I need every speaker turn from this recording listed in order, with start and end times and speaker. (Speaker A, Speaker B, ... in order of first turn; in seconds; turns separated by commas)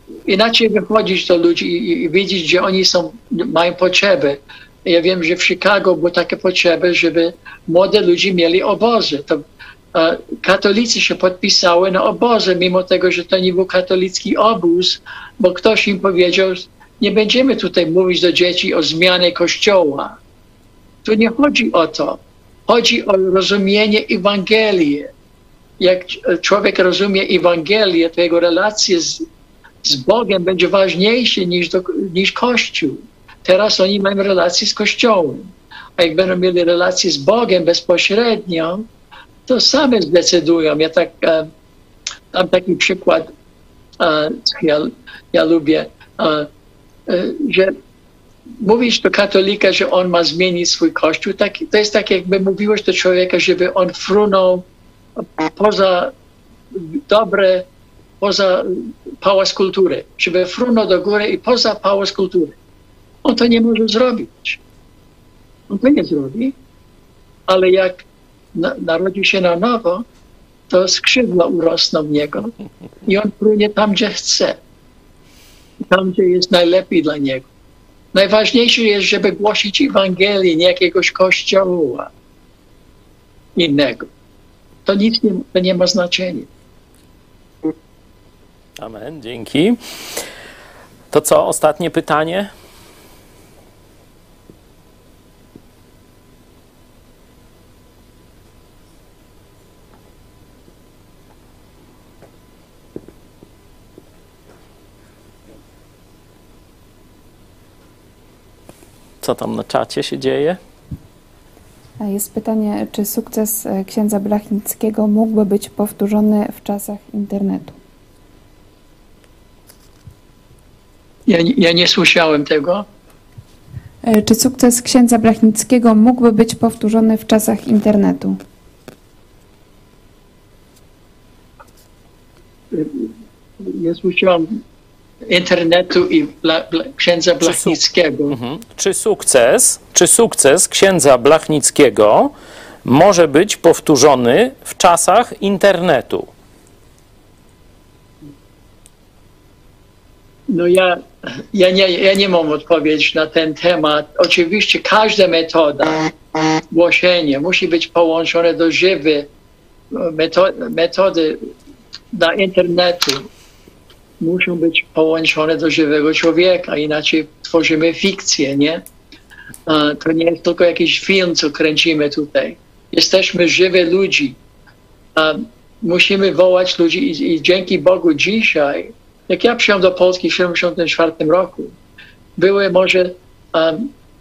Speaker A: 0.3-20.2, Speaker A: 21.0-25.1, Speaker A: 25.8-29.2, Speaker A: 29.8-38.9, Speaker A: 39.5-41.5, Speaker A: 42.3-43.3, Speaker A: 44.0-46.5, Speaker A: 47.1-47.7, Speaker A: 48.6-54.6, Speaker A: 55.2-56.1, Speaker A: 56.7-57.7, Speaker A: 58.2-62.6, Speaker A: 63.2-64.6, Speaker A: 65.7-66.5, Speaker A: 67.5-68.0, Speaker A: 68.5-70.0, Speaker A: 70.7-72.5, Speaker A: 73.0-74.6, Speaker A: 75.9-77.5, Speaker A: 78.1-82.1, Speaker A: 83.6-84.1, Speaker A: 84.8-86.5, Speaker B: 88.8-89.8, Speaker B: 91.1-92.5, Speaker B: 109.2-110.6, Speaker C: 112.0-117.8, Speaker A: 121.3-122.8, Speaker C: 124.0-128.4, Speaker A: 132.7-134.6, Speaker A: 135.3-138.4, Speaker B: 137.4-142.3, Speaker B: 142.8-146.3, Speaker A: 150.5-156.1, Speaker A: 156.7-159.3, Speaker A: 159.9-161.5, Speaker A: 162.1-163.3, Speaker A: 164.2-168.8, Speaker A: 169.7-174.4, Speaker A: 175.2-181.7, Speaker A: 182.4-183.9